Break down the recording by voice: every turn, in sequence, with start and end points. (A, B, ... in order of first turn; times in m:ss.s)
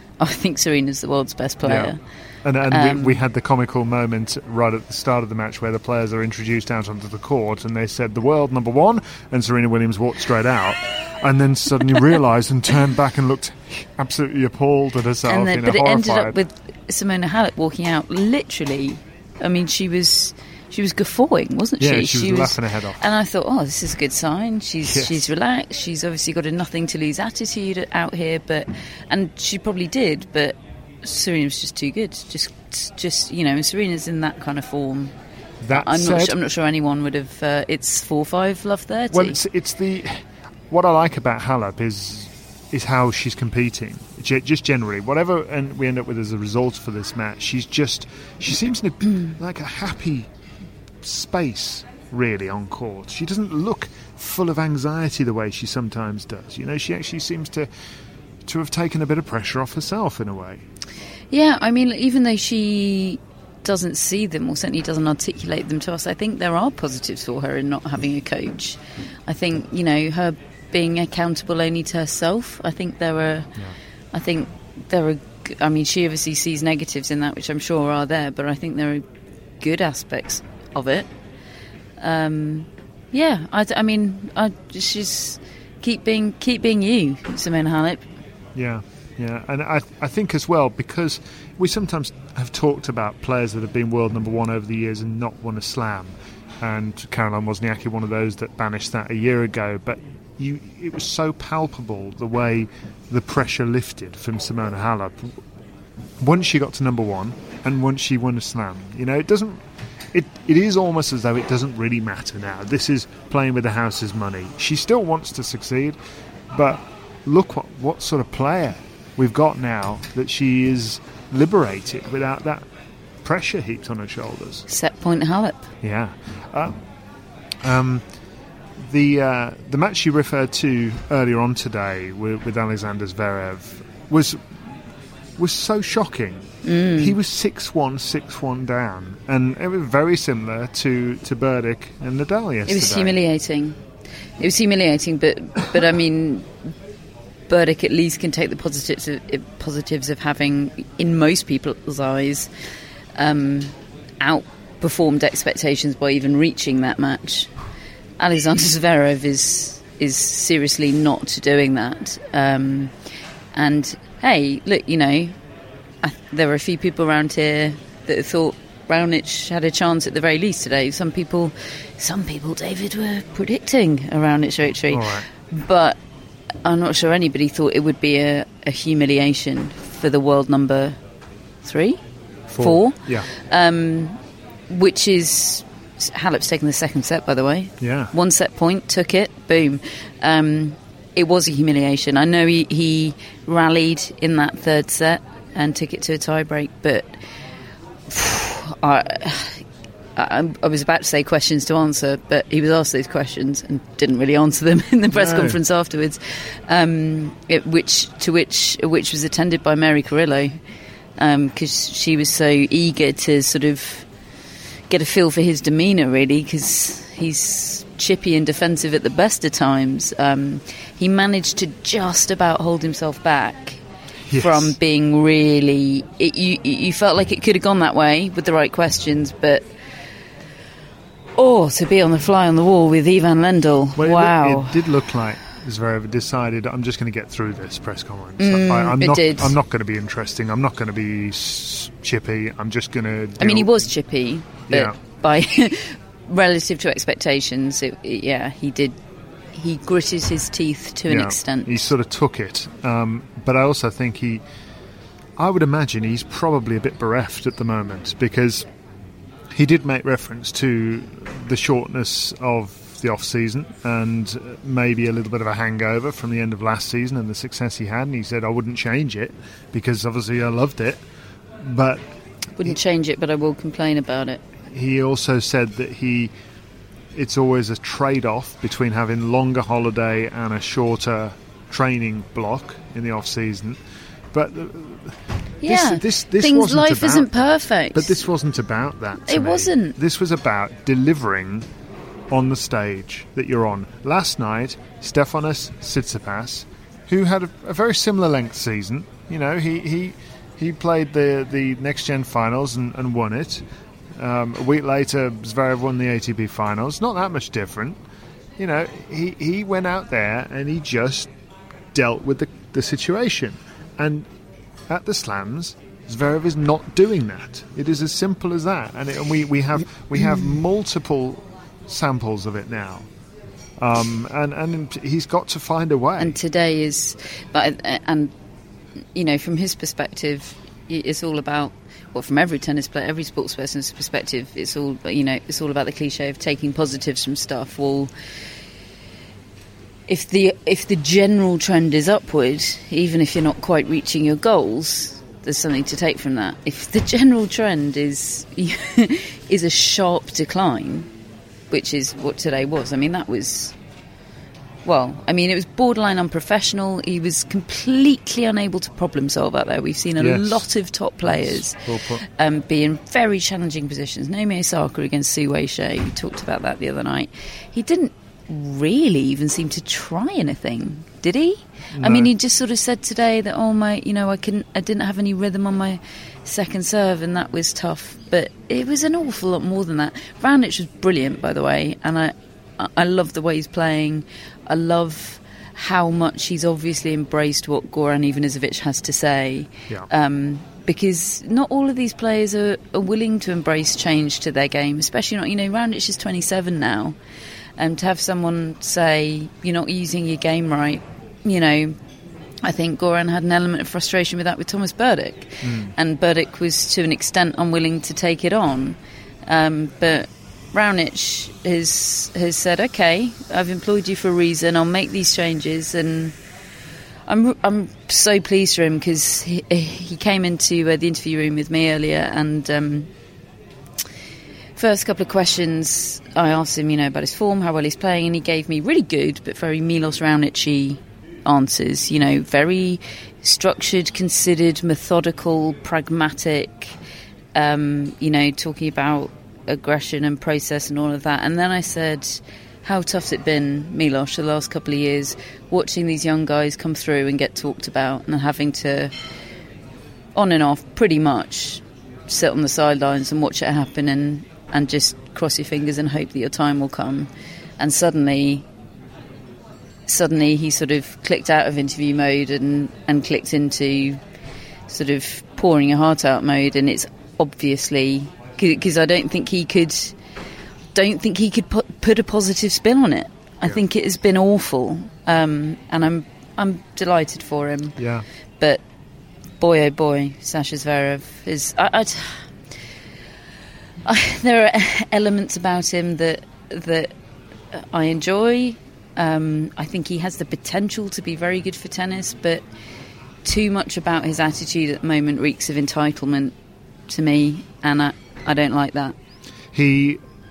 0:00.2-0:02.0 A
0:01.6-0:16.4 B
0:02.7-0:03.2 A
0:15.3-0:35.2 A
0:21.8-0:23.0 B
0:24.9-0:25.3 B
0:35.6-0:36.4 B
0:35.7-0:39.4 A
0:39.1-0:50.3 B
0:51.0-0:57.7 B
0:58.5-1:00.6 B
1:01.3-1:13.5 A
1:14.1-1:19.0 A
1:19.6-1:21.1 A
1:22.0-1:28.0 A
1:28.6-1:45.4 B
1:46.2-1:56.0 B
1:56.5-2:02.7 B
2:03.2-2:04.6 B
2:04.7-2:05.7 A
2:05.8-2:06.8 B
2:07.6-2:08.0 B
2:08.8-2:14.6 B
2:15.4-2:23.2 B
2:16.6-2:17.2 A
2:22.7-2:23.8 A
2:24.4-2:26.5 A
2:27.5-2:32.5 A
2:33.2-2:37.5 A
2:38.2-2:42.9 A
2:43.5-2:45.4 A
2:46.0-2:56.0 A
2:54.9-2:55.3 B
2:56.6-3:01.0 A
3:01.6-3:02.0 A
3:02.5-3:03.3 B
3:02.6-3:17.2 A
3:07.8-3:08.1 B
3:18.1-3:19.6 A
3:20.2-3:30.6 A
3:25.1-3:25.6 B
3:31.2-3:34.1 A
3:34.9-3:43.8 A
3:44.3-3:44.8 B
3:44.3-3:49.6 A
3:51.4-3:54.8 A
3:54.0-4:03.9 B
3:58.4-3:59.6 A
4:03.4-4:09.0 A
4:04.7-4:05.0 B
4:09.5-4:11.9 A
4:11.1-4:14.4 B
4:15.4-4:18.7 B
4:19.5-4:31.0 B
4:31.6-4:32.0 B
4:32.6-4:34.4 A
4:34.7-4:36.3 B
4:37.1-4:43.8 B
4:44.3-4:51.7 B
4:45.6-4:48.2 A
4:49.2-4:50.0 A
4:52.3-5:08.0 B
5:08.6-5:11.3 B
5:11.9-5:14.3 B
5:14.9-5:23.1 B
5:23.8-5:26.4 B
5:26.2-5:28.3 A
5:29.1-5:38.1 A
5:40.1-5:51.1 A
5:51.7-5:53.7 A
5:54.8-6:37.2 A
6:00.2-6:00.7 B
6:01.2-6:02.2 B
6:11.9-6:12.3 B
6:37.8-6:42.0 A
6:42.6-6:56.4 A
6:45.6-6:45.9 B
6:57.3-7:03.1 A
7:04.8-7:17.0 A
7:17.5-7:29.1 A
7:30.4-7:38.6 A
7:40.1-7:44.2 A
7:44.9-7:50.2 A
7:51.0-7:58.0 A
7:58.0-7:58.2 B
7:59.6-8:02.5 A
8:04.0-8:07.1 A
8:07.7-8:12.6 A
8:13.4-8:16.6 A
8:17.1-8:19.2 A
8:19.7-8:20.2 B